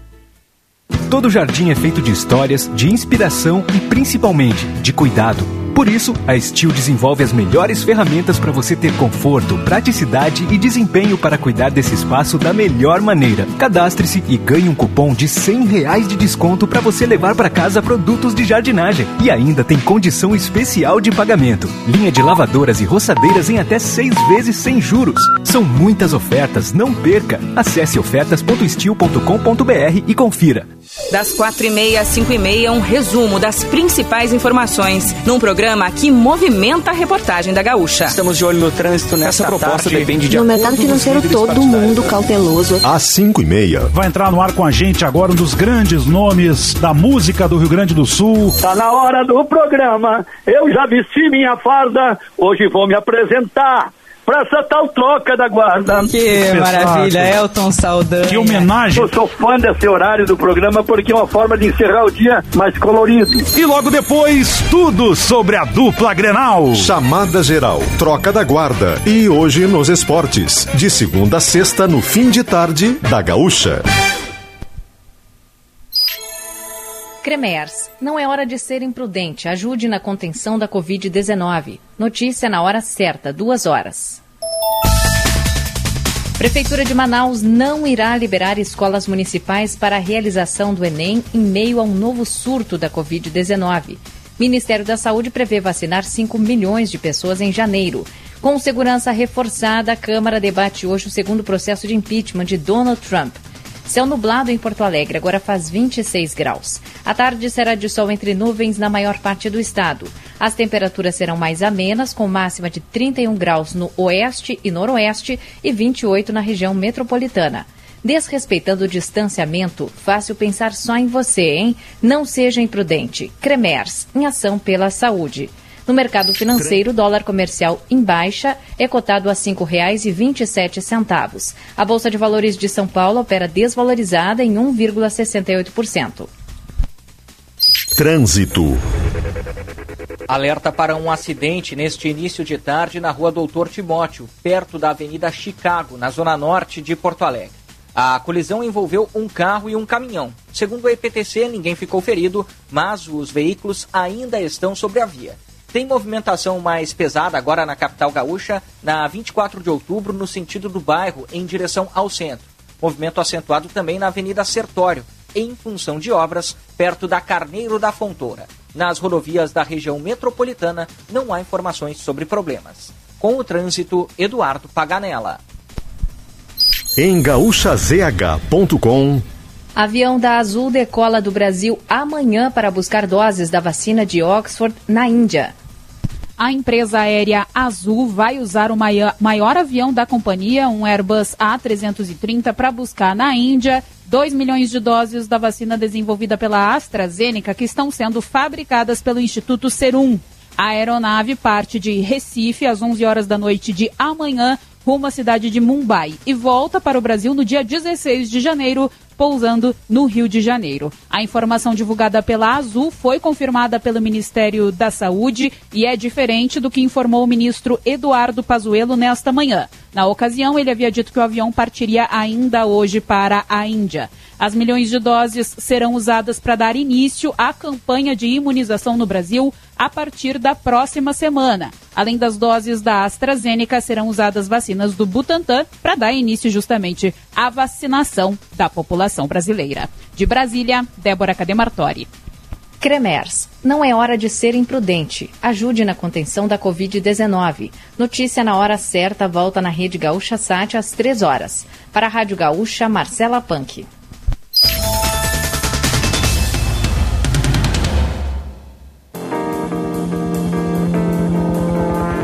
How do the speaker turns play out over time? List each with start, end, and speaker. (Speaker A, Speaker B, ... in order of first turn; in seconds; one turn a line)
Speaker A: 1.1-30.7
Speaker B: 31.1-38.2
Speaker C: 38.1-40.5
Speaker D: 40.2-42.8
Speaker E: 42.8-43.9
Speaker F: 43.9-48.6
Speaker G: 48.6-55.9
Speaker B: 55.9-58.8
Speaker F: 56.2-57.4
Speaker F: 58.2-59.1
Speaker G: 59.1-63.4
Speaker F: 63.5-66.9
Speaker E: 66.7-73.8
Speaker H: 77.2-84.2
Speaker H: 86.4-136.3
Speaker E: 137.9-138.8
Speaker I: 140.3-175.4
Speaker E: 177.0-179.2
Speaker H: 179.8-185.5
Speaker J: 186.4-242.1
Speaker H: 242.8-253.9